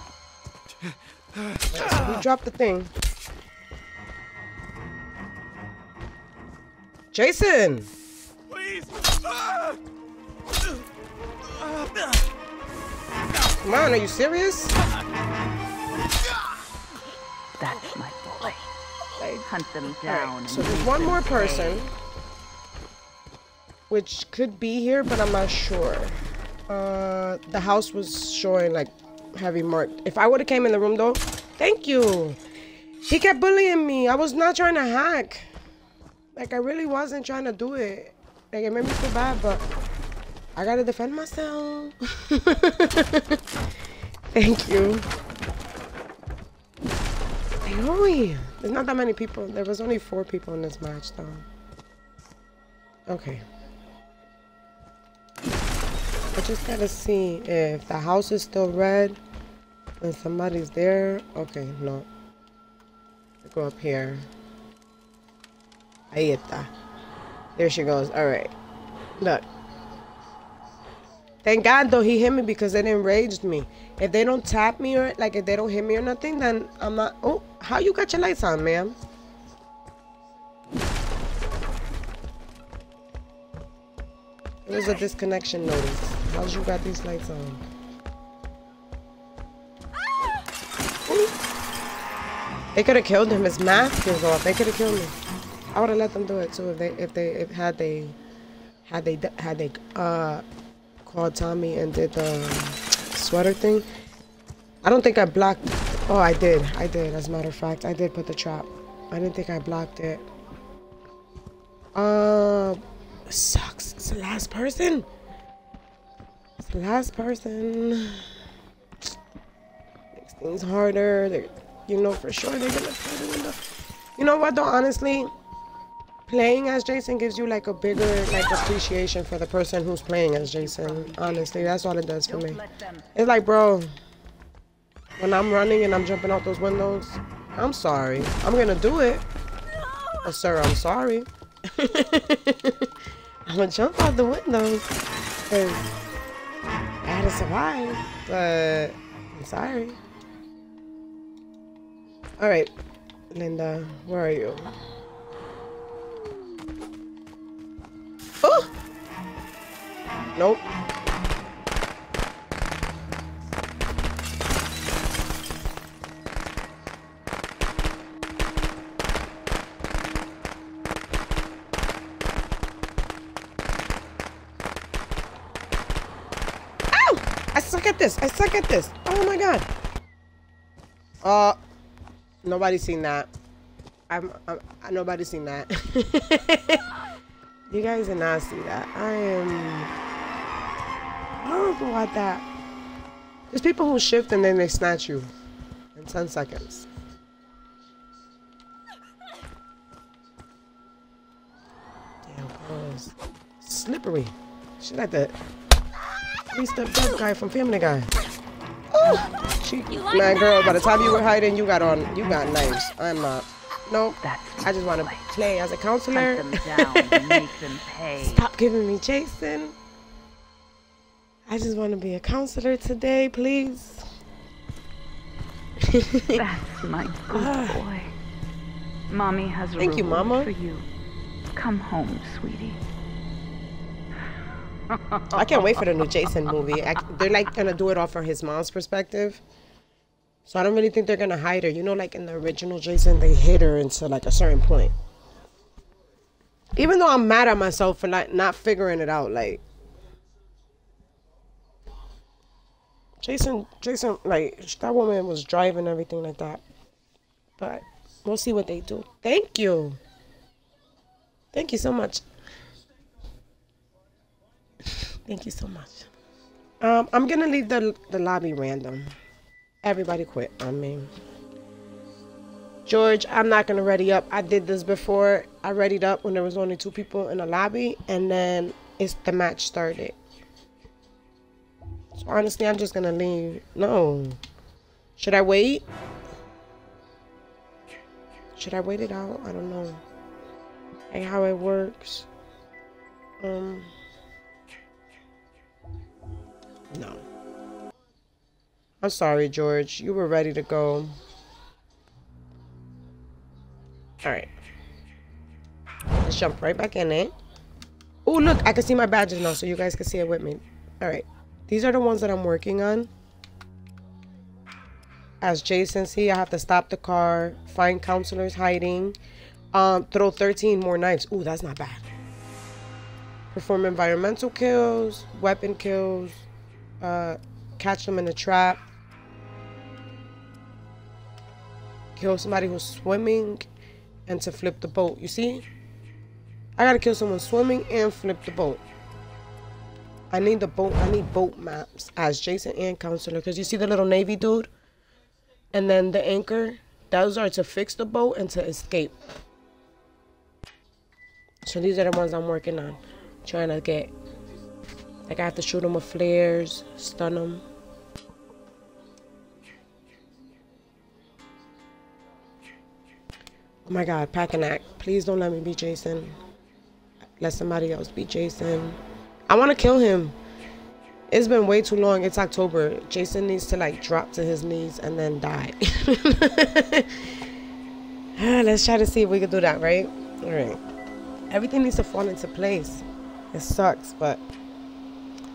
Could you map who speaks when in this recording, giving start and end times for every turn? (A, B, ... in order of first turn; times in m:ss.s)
0:01.4-0:02.1 A
0:01.7-0:02.9 B
0:07.1-0:07.9 B
0:08.5-0:09.8 A
0:13.6-0:14.8 B
0:17.6-0:18.7 C
0:19.2-0:21.9 B
0:19.4-0:21.9 C
0:23.9-0:32.4 B
0:33.1-0:35.5 B
0:36.3-0:39.6 B
0:40.6-0:43.4 B
0:44.3-0:45.1 B
0:47.6-0:51.4 B
0:53.1-0:53.4 B
0:56.3-0:59.2 B
1:00.0-1:02.1 B
1:03.4-1:04.3 B
1:06.1-1:06.7 B
1:07.6-1:08.5 B
1:09.2-1:09.4 B
1:11.4-1:19.0 B
1:24.6-1:27.6 B
1:31.0-1:31.4 B
1:32.7-1:35.1 B
1:35.7-1:38.2 B
1:38.8-1:40.4 B
1:41.0-1:43.9 B
1:44.8-1:50.3 B
1:51.9-1:55.1 B
1:56.6-1:58.3 B
2:00.1-2:03.6 B
2:04.2-2:05.3 B
2:06.3-2:12.6 B
2:10.3-2:13.1 C
2:13.1-2:13.9 B
2:15.2-2:19.2 B
2:20.2-2:22.9 B
2:23.4-2:26.0 B
2:27.0-2:30.0 B
2:32.4-2:32.7 B
2:33.3-2:34.7 B
2:38.4-2:38.7 B
2:40.3-2:40.6 B
2:56.9-2:59.7 B
3:01.2-3:01.6 B
3:02.4-3:03.3 B
3:04.1-3:07.0 B
3:07.7-3:09.9 B
3:11.4-3:12.4 B
3:13.5-3:15.3 B
3:15.9-3:16.9 B
3:22.2-3:25.4 B
3:26.5-3:28.1 B
3:28.9-3:37.5 B
3:34.2-3:35.2 C
3:36.1-3:38.5 C
3:38.2-3:39.8 B
3:41.4-3:44.1 B
3:45.8-3:46.4 B
3:46.3-3:48.1 C
3:47.3-3:47.8 B
3:49.1-3:50.9 C
3:49.8-3:50.5 B
3:51.5-3:52.8 C
3:54.9-3:55.4 C
3:55.3-3:59.4 B
4:00.4-4:04.9 B
4:06.7-4:09.6 B
4:13.2-4:16.6 B
4:17.6-4:20.0 B
4:21.5-4:22.2 B
4:24.8-4:26.1 B
4:26.8-4:29.2 B
4:29.8-4:31.1 B
4:32.8-4:40.2 B
4:42.2-4:44.4 B
4:45.2-4:45.8 B
4:48.6-4:50.0 B
4:51.1-4:52.3 B
4:53.4-4:53.9 B
4:56.9-4:57.2 B
4:59.0-5:01.2 B
5:04.2-5:04.5 B
5:06.2-5:07.3 B
5:08.2-5:13.1 B
5:15.4-5:19.2 B
5:19.7-5:22.1 B
5:23.5-5:26.5 B
5:27.0-5:28.8 B
5:32.2-5:33.7 B
5:34.3-5:35.6 B
5:36.8-5:38.8 B
5:40.3-5:44.7 B
5:45.7-5:49.2 B
5:51.6-5:54.1 B
5:55.3-5:57.6 B
6:03.8-6:06.4 B
6:07.4-6:10.4 B
6:11.3-6:17.4 B
6:18.4-6:20.8 B
6:21.5-6:24.4 B